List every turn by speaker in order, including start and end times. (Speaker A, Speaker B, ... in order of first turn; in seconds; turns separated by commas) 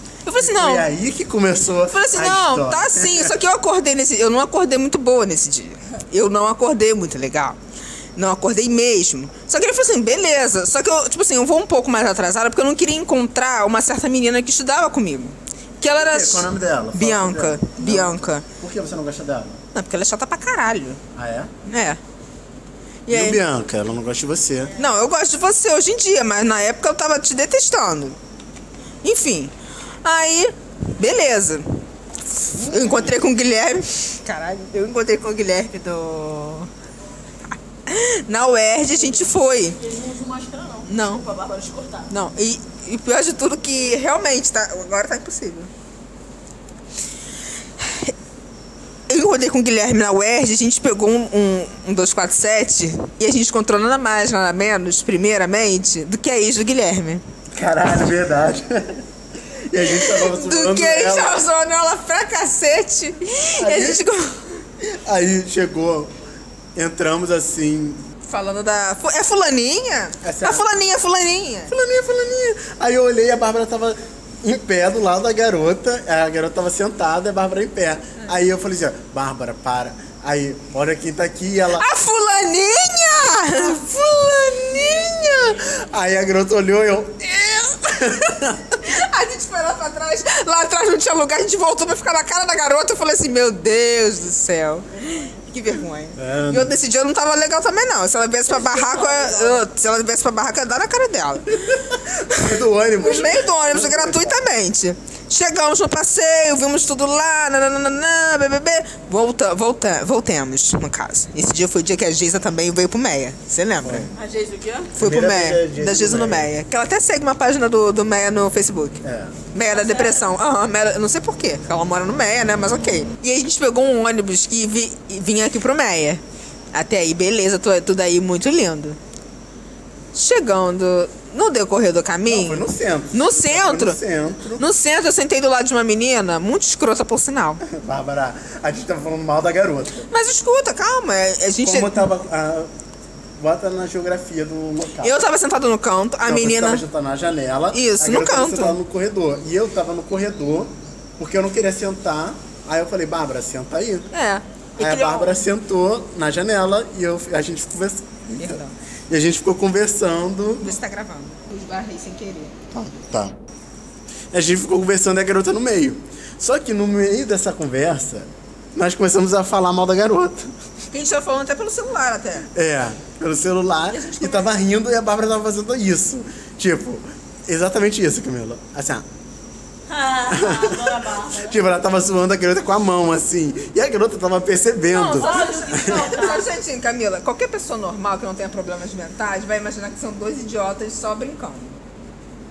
Speaker A: 0.2-0.9, Speaker B: 0.4-3.3, Speaker A: 1.9-7.6, Speaker A: 8.2-18.4, Speaker B: 15.9-19.6, Speaker A: 19.7-21.0, Speaker B: 21.1-21.5, Speaker A: 21.6-22.0, Speaker A: 23.1-23.4, Speaker B: 23.1-24.7, Speaker A: 24.8-28.2, Speaker A: 29.0-31.8, Speaker A: 32.4-36.7, Speaker B: 32.6-33.1, Speaker A: 37.5-39.8, Speaker C: 39.0-42.1, Speaker A: 40.9-41.3, Speaker A: 42.1-45.7, Speaker A: 47.8-48.1, Speaker A: 49.1-57.2, Speaker B: 57.5-59.0, Speaker B: 59.7-61.4, Speaker A: 59.8-64.6, Speaker B: 63.6-64.1, Speaker B: 64.8-66.1, Speaker B: 66.8-68.0, Speaker A: 68.3-71.7, Speaker B: 70.2-70.7, Speaker B: 71.7-81.9, Speaker A: 81.8-83.8, Speaker B: 83.5-88.8, Speaker A: 88.8-114.1, Speaker B: 96.2-96.7, Speaker C: 98.5-99.7, Speaker B: 101.7-104.4, Speaker B: 113.8-114.1, Speaker C: 114.1-114.9, Speaker B: 115.0-116.5, Speaker A: 115.0-119.0, Speaker B: 119.0-119.4, Speaker A: 119.5-126.2, Speaker C: 119.7-120.3, Speaker A: 126.7-129.0, Speaker A: 130.1-134.0, Speaker B: 132.3-134.7, Speaker A: 134.6-137.6, Speaker B: 137.6-140.1, Speaker A: 140.1-142.1, Speaker B: 141.6-142.7, Speaker B: 143.4-145.2, Speaker A: 145.0-146.8, Speaker B: 146.2-154.1, Speaker A: 147.7-148.8, Speaker A: 154.1-155.4, Speaker B: 154.8-160.8, Speaker A: 158.4-158.7, Speaker A: 160.6-162.5, Speaker B: 162.7-163.4, Speaker B: 164.3-170.5, Speaker A: 170.9-172.5, Speaker B: 172.5-179.1, Speaker A: 173.9-174.5, Speaker C: 179.9-181.7, Speaker B: 180.3-186.1, Speaker A: 184.9-191.8, Speaker C: 185.1-186.6